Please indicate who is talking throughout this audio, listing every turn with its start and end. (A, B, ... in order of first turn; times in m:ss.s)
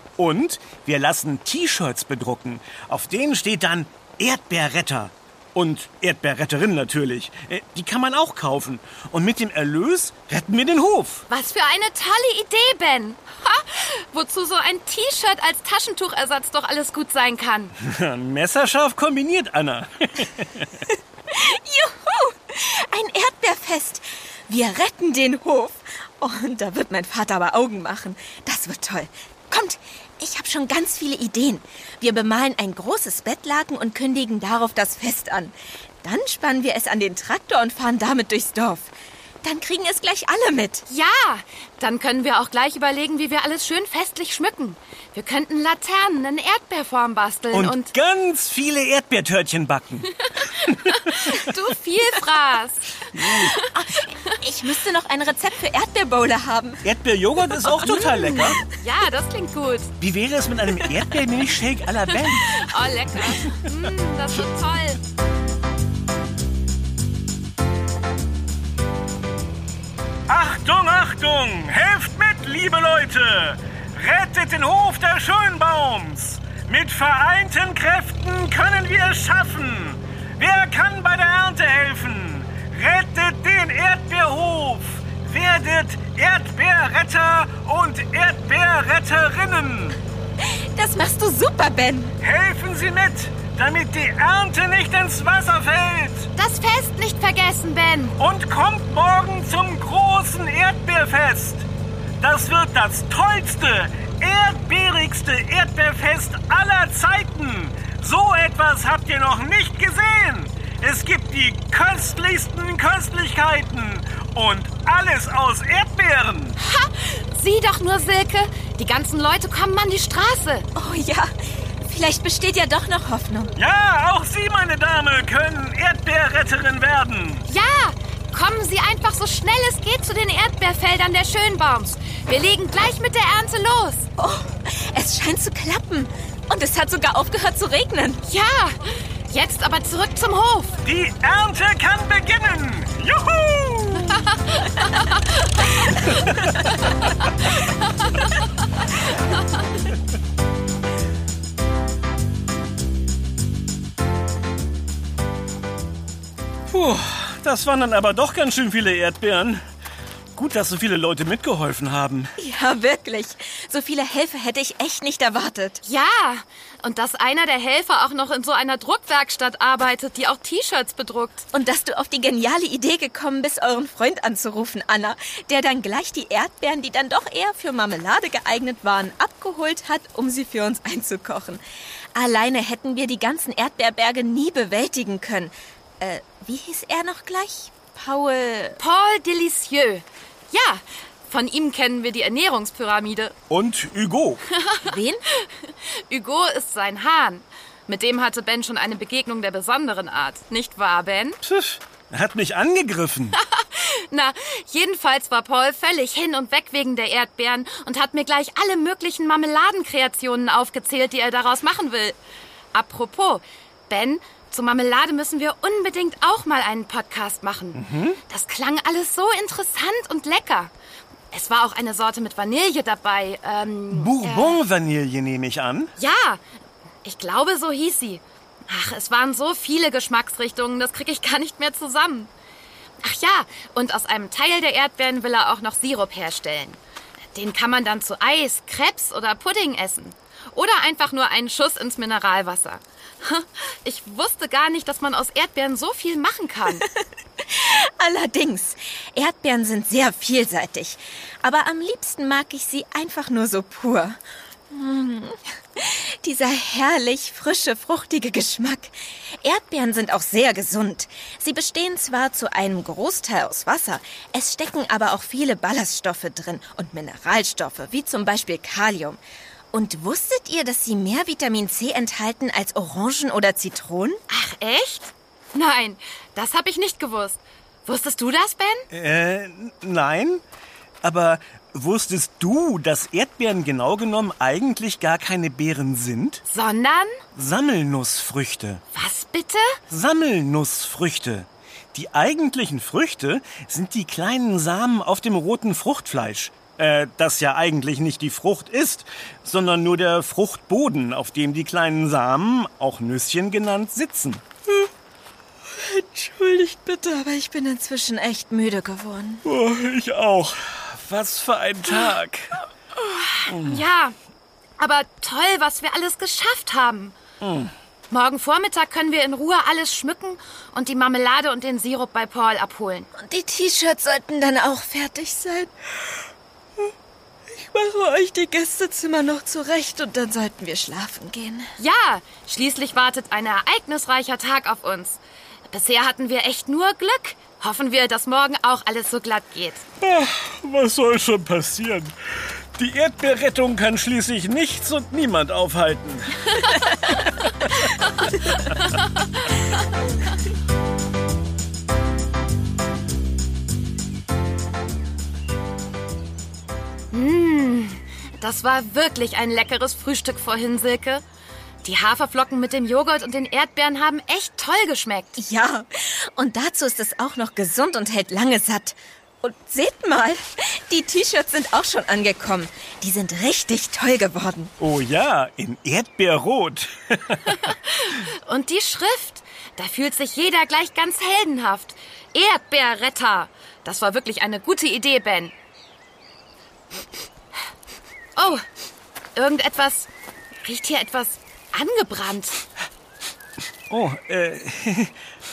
0:00.2-0:11.2 A
0:11.3-0:17.7 B
0:17.8-0:20.8 A
0:20.9-0:38.9 C
0:39.4-0:40.8 C
0:40.9-0:47.9 B
0:47.5-0:51.5 A
0:50.4-0:53.6 B
0:53.1-0:53.5 A
0:53.5-0:56.8 C
0:56.8-0:58.6 A
0:57.8-0:59.9 B
1:00.0-1:02.6 A
1:02.4-1:05.0 B
1:10.3-1:30.0 A
1:30.4-1:32.1 C
1:32.2-1:36.3 A
1:36.4-1:38.2 B
1:38.2-1:41.6 A
1:42.2-1:56.6 A
1:56.6-2:00.6 B
2:00.7-2:03.5 C
2:03.6-2:07.4 A
2:07.5-2:14.1 B
2:14.2-2:18.2 C
2:18.3-2:20.8 B
2:20.8-2:24.3 A
2:24.2-2:25.5 B
2:25.9-2:27.1 A
2:26.8-2:28.3 B
2:36.7-2:39.6 A
2:40.3-2:42.3 A
2:42.4-2:45.8 C
2:45.8-2:51.4 B
2:51.5-3:01.6 C
3:02.1-3:08.8 C
3:08.8-3:13.3 B
3:13.5-3:14.4 A
3:14.5-3:21.4 B
3:14.8-3:15.2 C
3:21.4-3:23.4 A
3:23.4-3:32.2 B
3:32.7-3:40.7 B
3:37.7-3:38.2 A
3:41.3-3:44.6 B
3:43.9-3:45.9 A
3:46.0-3:46.4 B
3:47.0-3:52.3 B
3:53.0-3:56.8 B
3:57.3-4:06.8 B
4:06.7-4:29.2 C
4:29.7-4:34.2 C
4:34.3-4:38.9 B
4:38.9-4:40.4 A
4:41.0-4:46.4 A
4:46.5-4:47.2 B
4:47.3-4:48.8 A
4:48.9-4:49.8 B
4:49.9-5:04.4 A
5:05.7-5:09.4 C
5:09.4-5:12.6 A
5:13.0-5:14.2 B
5:13.5-5:13.8 A
5:14.8-5:17.2 B
5:17.4-5:17.7 A
5:18.1-5:23.1 B
5:23.2-5:26.2 C
5:27.5-5:31.7 C
5:31.8-5:39.8 B
5:40.0-5:47.9 A
5:48.2-5:49.6 B
5:48.5-5:48.8 A
5:57.1-6:01.2 B
6:01.8-6:05.4 B
6:05.4-6:14.7 C
6:14.8-6:17.8 A
6:17.5-6:25.5 B
6:28.4-6:28.6 B
6:29.4-6:30.1 B
6:30.6-6:32.6 B
6:33.9-6:35.1 A